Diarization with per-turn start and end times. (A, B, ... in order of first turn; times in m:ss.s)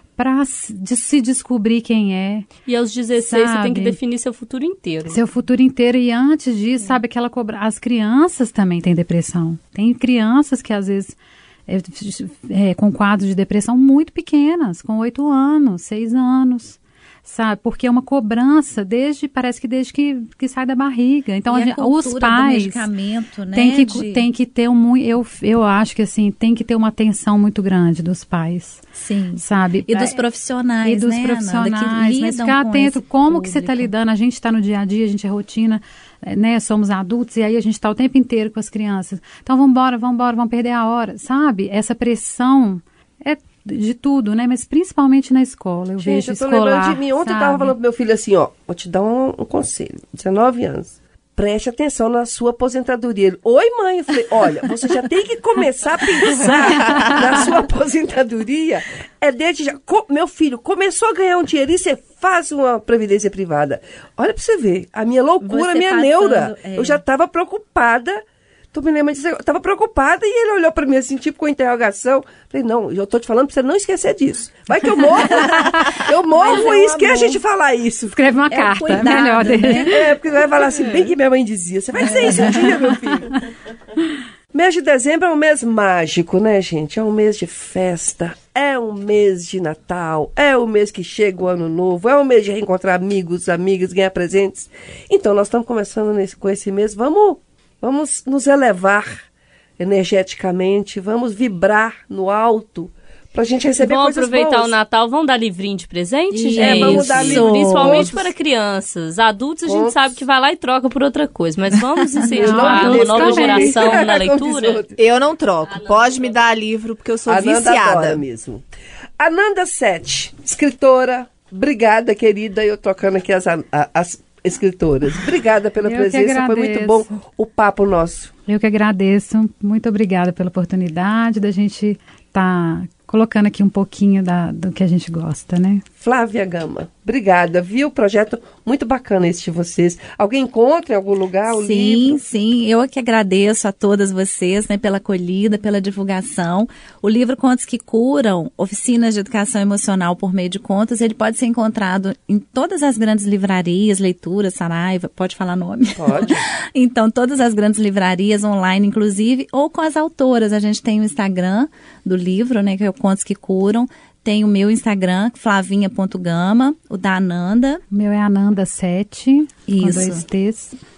0:00.2-0:02.5 A
0:02.7-0:05.2 B
0:03.2-0:04.0 A
0:05.1-0:11.2 A
0:11.7-0:22.9 A
0:21.5-0:24.3 C
0:23.5-0:28.8 A
0:29.0-0:33.9 C
0:29.4-0:30.2 A
0:30.8-0:47.8 A
0:46.0-1:08.2 D
0:56.3-0:57.2 B
1:05.4-1:07.0 C
1:08.7-1:18.2 D
1:15.2-1:17.4 C
1:15.5-1:16.0 A
1:18.1-1:20.0 A
1:18.5-1:20.0 C
1:19.6-1:23.3 D
1:22.1-1:22.8 C
1:24.5-1:39.2 D
1:39.8-1:44.8 D
1:43.8-1:54.8 B
1:46.3-1:48.1 C
1:46.6-1:48.3 D
1:49.6-1:50.2 D
1:52.1-1:52.6 C
1:52.2-1:54.0 A
1:52.3-1:55.0 D
1:55.0-1:58.2 E
1:55.7-1:56.4 B
1:57.3-1:58.6 D
1:59.2-2:08.3 D
2:05.8-2:07.1 A
2:08.5-2:15.8 A
2:16.0-2:22.2 D
2:21.5-2:47.8 C
2:36.0-2:36.5 D
2:47.9-2:50.8 A
2:49.7-2:50.2 C